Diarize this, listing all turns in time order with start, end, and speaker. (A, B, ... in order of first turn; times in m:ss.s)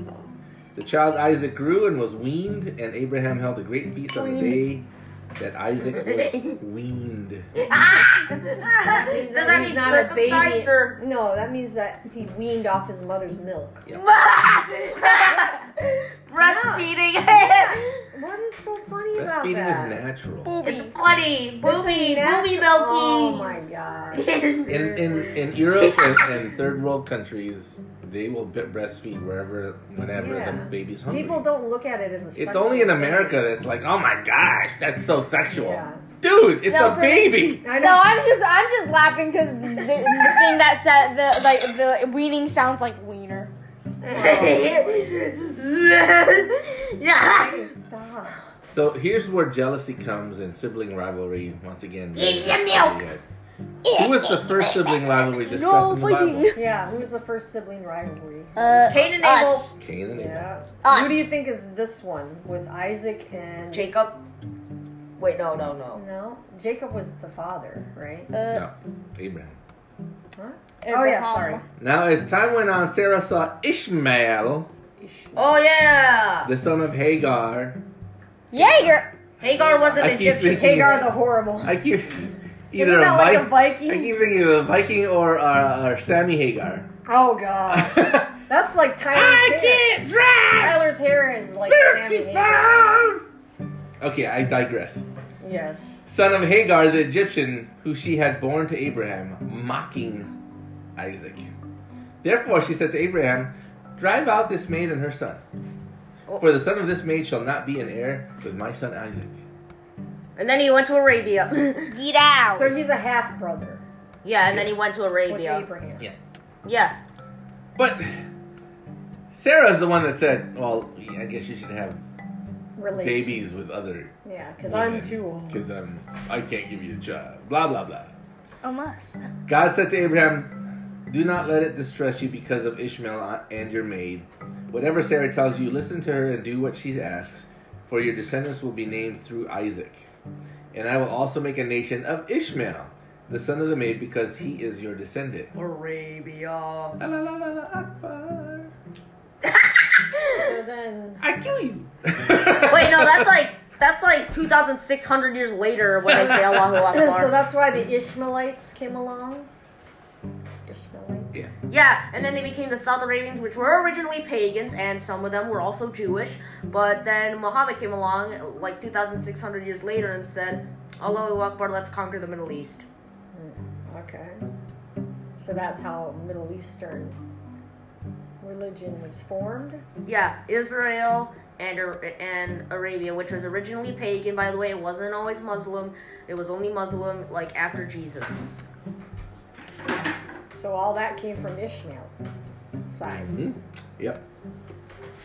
0:00.7-0:07.5 A
0:04.1-0:04.6 B
0:06.0-0:06.6 C
0:07.6-0:11.0 C
0:08.8-0:13.8 B
0:13.9-0:15.7 C
0:16.3-0:17.9 C
0:16.4-0:16.9 B
0:17.5-0:20.0 B
0:19.1-0:20.5 A
0:20.4-0:20.9 D
0:20.6-0:24.7 C
0:21.6-0:25.4 B
0:24.7-0:31.5 A
0:25.7-0:26.3 C
0:30.1-0:33.4 B
0:32.3-0:37.6 A
0:35.5-0:36.0 B
0:36.6-0:43.5 D
0:37.6-0:38.1 B
0:44.0-0:46.6 C
0:44.1-0:44.9 B
0:46.8-0:47.5 D
0:47.3-0:48.5 B
0:48.7-0:53.2 A
0:52.1-0:53.0 C
0:52.4-0:52.8 D
0:53.8-0:56.7 D
0:53.9-0:56.5 A
0:56.5-0:59.0 B
0:58.6-0:59.7 D
0:58.9-0:59.7 C
0:59.8-1:00.5 A
1:00.1-1:03.9 B
1:00.8-1:01.3 D
1:03.7-1:04.2 C
1:05.2-1:06.0 C
1:05.9-1:08.3 B
1:08.3-1:08.6 D
1:08.5-1:09.6 A
1:10.4-1:11.6 B
1:10.8-1:11.6 D
1:11.8-1:14.7 A
1:15.0-1:15.6 B
1:15.4-1:16.5 C
1:16.4-1:17.8 A
1:18.5-1:19.1 D
1:18.6-1:19.0 A
1:19.4-1:21.0 C
1:19.9-1:26.9 A
1:20.5-1:21.8 B
1:22.7-1:24.2 B
1:27.0-1:29.9 B
1:27.7-1:28.3 A
1:29.1-1:30.9 A
1:30.6-1:32.8 B
1:31.6-1:33.2 A
1:34.0-1:35.0 A
1:35.4-1:35.9 B
1:36.1-1:40.3 A
1:41.0-1:41.5 A
1:42.2-1:45.4 A
1:46.3-1:46.5 C
1:46.4-1:49.4 A
1:50.4-1:51.9 C
1:51.9-1:52.8 D
1:52.5-1:53.8 B
1:54.2-1:55.7 C
1:55.3-1:56.1 B
1:56.6-1:57.0 C
1:57.8-1:58.2 A
1:59.3-2:02.0 A
2:02.8-2:03.5 B
2:02.9-2:08.1 A
2:04.2-2:05.6 B
2:08.6-2:09.2 D
2:09.5-2:20.1 A
2:20.7-2:25.5 A
2:25.5-2:27.0 C
2:27.0-2:28.7 A
2:29.5-2:30.2 C
2:30.3-2:31.2 B
2:31.2-2:33.3 A
2:32.6-2:37.4 C
2:36.1-2:36.7 A
2:36.9-2:39.5 B
2:40.6-2:41.4 B
2:41.7-2:52.8 C
2:53.3-2:54.4 B
2:55.4-2:57.2 B
2:58.4-2:59.8 B
3:00.0-3:08.5 C
3:10.5-3:12.1 B
3:12.8-3:13.4 B
3:13.2-3:14.2 A